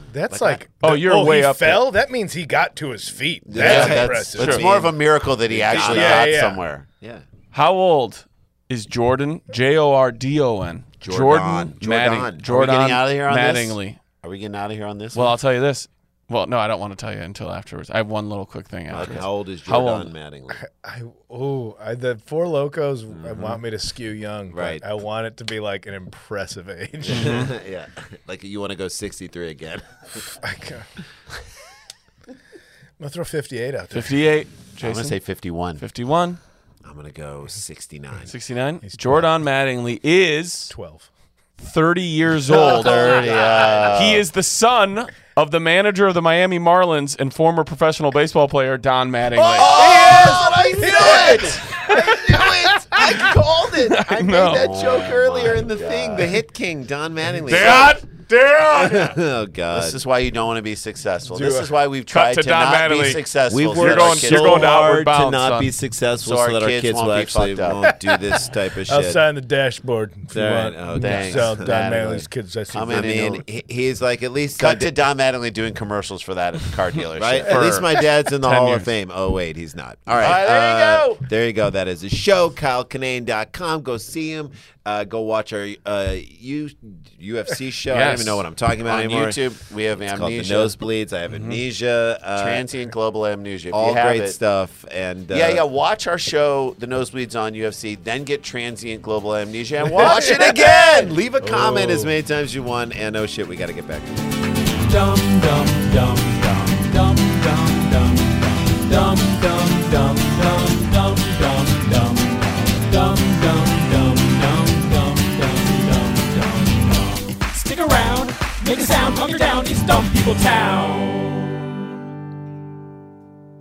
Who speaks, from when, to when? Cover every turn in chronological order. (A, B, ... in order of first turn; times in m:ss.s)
0:00.1-0:04.7 A
0:00.3-0:00.6 B
0:00.8-0:01.9 C
0:03.4-0:06.3 B
0:03.6-0:04.6 C
0:03.6-0:06.9 D
0:05.7-0:06.6 A
0:05.7-0:06.3 C
0:06.9-0:07.2 B
0:07.5-0:14.0 C
0:11.0-0:12.4 B
0:12.4-0:15.3 D
0:15.1-0:20.1 C
0:18.9-0:20.6 B
0:20.6-0:27.4 A
0:23.1-0:23.6 B
0:24.5-0:24.8 B
0:27.0-0:30.2 B
0:27.1-0:27.5 C
0:30.4-0:30.9 A
0:33.0-0:34.2 A
0:33.9-0:35.2 C
0:34.8-0:35.8 D
0:35.8-0:36.4 C
0:36.8-0:38.3 B
0:38.3-0:40.7 C
0:38.8-0:39.3 A
0:40.7-0:41.1 A
0:41.6-0:43.3 C
0:42.5-0:43.8 A
0:42.6-0:44.2 D
0:43.2-0:44.1 B
0:43.9-0:51.4 C
0:49.4-0:58.0 B
0:49.5-0:51.3 D
0:50.8-0:51.9 A
0:53.8-0:54.7 C
0:54.4-0:56.4 D
0:57.5-0:59.1 C
0:58.8-1:00.0 B
0:59.7-1:04.8 D
1:01.3-1:01.7 A
1:02.1-1:05.7 C
1:03.5-1:09.2 B
1:06.2-1:07.9 D
1:07.9-1:13.3 A
1:10.3-1:12.2 B
1:11.0-1:13.4 D
1:12.9-1:14.9 B
1:14.6-1:17.8 D
1:17.1-1:29.4 B
1:17.5-1:18.9 C
1:20.1-1:21.2 D
1:27.9-1:28.4 C
1:28.8-1:30.8 D
1:30.0-1:32.6 B
1:31.3-1:31.6 C
1:32.4-1:34.4 D
1:33.7-1:35.6 B
1:35.3-1:41.1 D
1:39.9-1:44.4 B
1:39.9-1:42.1 A
1:44.8-2:01.5 E